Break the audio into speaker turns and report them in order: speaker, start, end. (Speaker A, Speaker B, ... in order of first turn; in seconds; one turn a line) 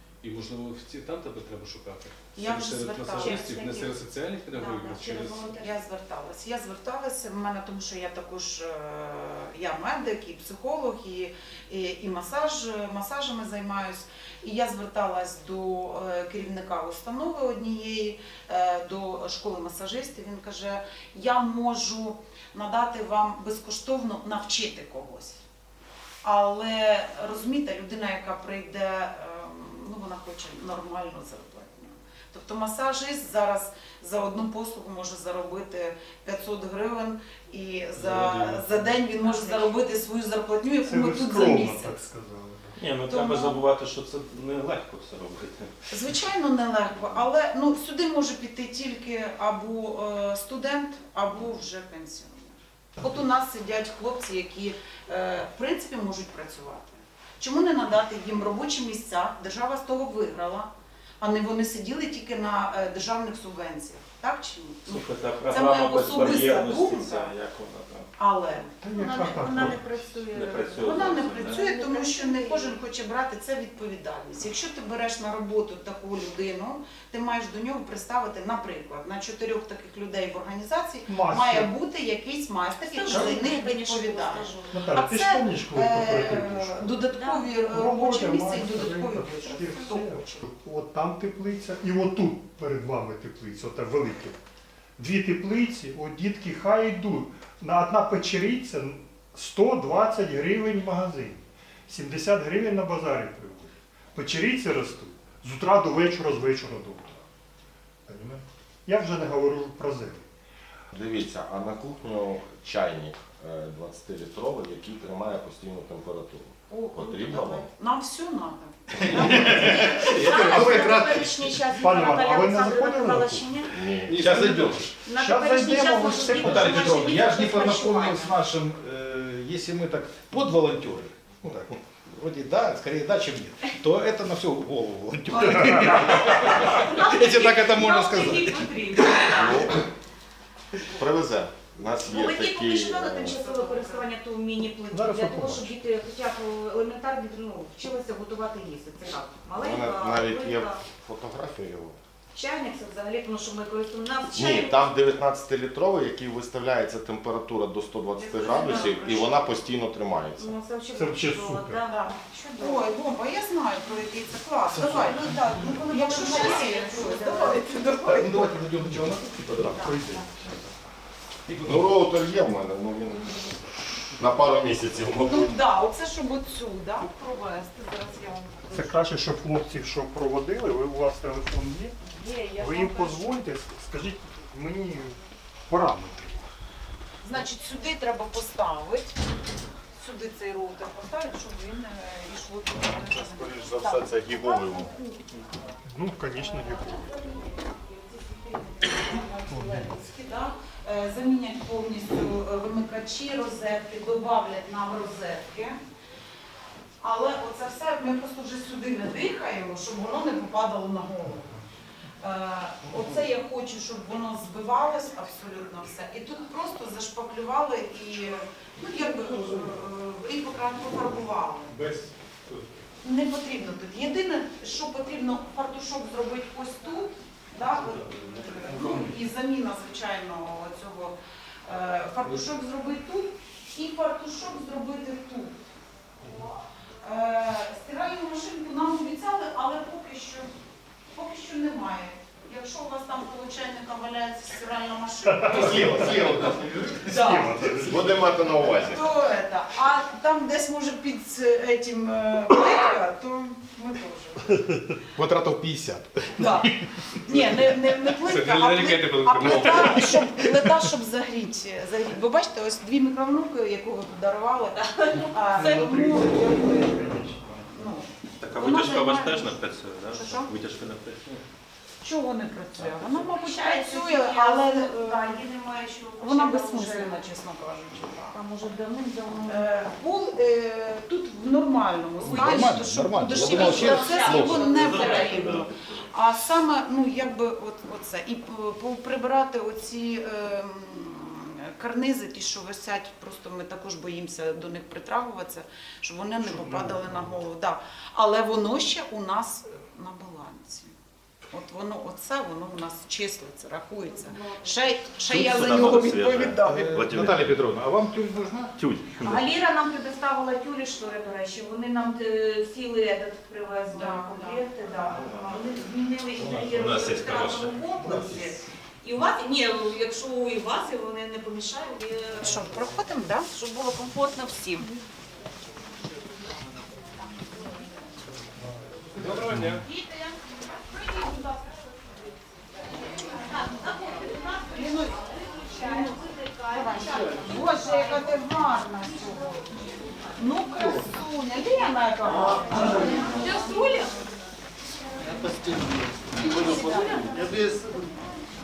Speaker A: 0.2-5.5
Speaker B: 2.4-3.6
Speaker C: 3.1-4.0
Speaker C: 4.6-5.7
Speaker B: 5.0-25.4
Speaker B: 26.2-42.0
Speaker A: 38.1-38.9
Speaker C: 39.2-39.8
Speaker D: 40.8-42.8
Speaker E: 42.8-45.7
Speaker B: 43.0-43.6
Speaker B: 45.9-60.7
Speaker B: 61.2-67.3
Speaker E: 64.9-68.1
Speaker B: 68.2-68.7
Speaker D: 68.8-69.9
Speaker C: 68.9-72.8
Speaker E: 70.3-71.6
Speaker B: 70.8-90.2
Speaker D: 81.1-81.7
Speaker C: 82.9-84.8
Speaker D: 84.7-86.9
Speaker C: 87.1-87.7
Speaker D: 87.7-94.4
Speaker C: 89.7-90.4
Speaker D: 95.0-107.2
Speaker D: 108.1-110.2
Speaker F: 110.9-117.7
Speaker B: 116.7-120.9
Speaker C: 119.2-123.7
Speaker G: 119.2-121.2
Speaker D: 121.7-123.5
Speaker F: 123.7-124.3
Speaker A: 124.1-124.4
Speaker G: 124.1-124.9
Speaker C: 124.3-128.4
Speaker D: 125.2-127.0
Speaker G: 126.3-138.9
Speaker C: 135.5-139.6
Speaker F: 139.3-139.8
Speaker F: 141.0-143.4
Speaker C: 142.1-150.8
Speaker B: 143.3-144.0
Speaker D: 144.9-145.7
Speaker F: 149.5-152.0
Speaker C: 152.3-154.8
Speaker F: 154.3-160.5
Speaker C: 158.2-159.5
Speaker C: 160.4-162.9
Speaker D: 160.9-161.8
Speaker B: 161.8-167.8
Speaker C: 164.7-168.4
Speaker G: 168.1-170.0
Speaker D: 169.7-170.2
Speaker G: 171.5-171.9
Speaker F: 171.6-173.5
Speaker F: 174.2-175.5
Speaker B: 175.2-179.0
Speaker D: 178.7-182.0
Speaker C: 182.1-183.3
Speaker D: 182.6-186.4
Speaker B: 187.2-189.2
Speaker B: 190.0-194.3
Speaker F: 193.3-194.9
Speaker D: 195.9-197.1
Speaker B: 198.2-205.8
Speaker B: 207.0-211.5
Speaker B: 212.2-221.8
Speaker E: 221.8-222.0
Speaker B: 223.0-231.2
Speaker B: 231.7-235.6
Speaker B: 237.0-240.5
Speaker B: 241.1-246.5
Speaker D: 245.3-246.2
Speaker G: 245.5-247.2
Speaker D: 247.1-248.7
Speaker B: 247.1-247.8
Speaker F: 247.8-249.1
Speaker B: 248.8-254.6
Speaker G: 255.2-256.8
Speaker B: 256.4-256.7
Speaker B: 257.2-264.8
Speaker G: 257.3-257.6
Speaker A: 258.2-260.2
Speaker G: 259.4-259.7
Speaker C: 264.8-265.8
Speaker B: 265.3-267.0
Speaker D: 265.6-267.4
Speaker B: 267.7-268.1
Speaker E: 268.4-271.4
Speaker B: 268.6-269.6
Speaker B: 270.1-270.5
Speaker B: 272.0-275.5
Speaker C: 273.2-277.2
Speaker B: 276.2-278.4
Speaker C: 278.3-279.7
Speaker B: 279.5-300.9
Speaker G: 282.2-284.6
Speaker C: 282.2-282.7
Speaker C: 283.3-285.5
Speaker E: 284.7-285.7
Speaker D: 296.4-297.4
Speaker B: 301.5-307.0
Speaker E: 305.3-307.7
Speaker G: 306.6-308.7
Speaker E: 308.8-309.5
Speaker C: 309.2-322.6
Speaker B: 313.9-314.7
Speaker E: 316.4-317.8
Speaker B: 322.4-323.6
Speaker C: 323.6-324.9
Speaker A: 329.2-329.8
Speaker C: 333.6-334.4
Speaker B: 334.7-335.2
Speaker B: 335.7-339.6
Speaker B: 340.4-343.1
Speaker C: 343.4-344.1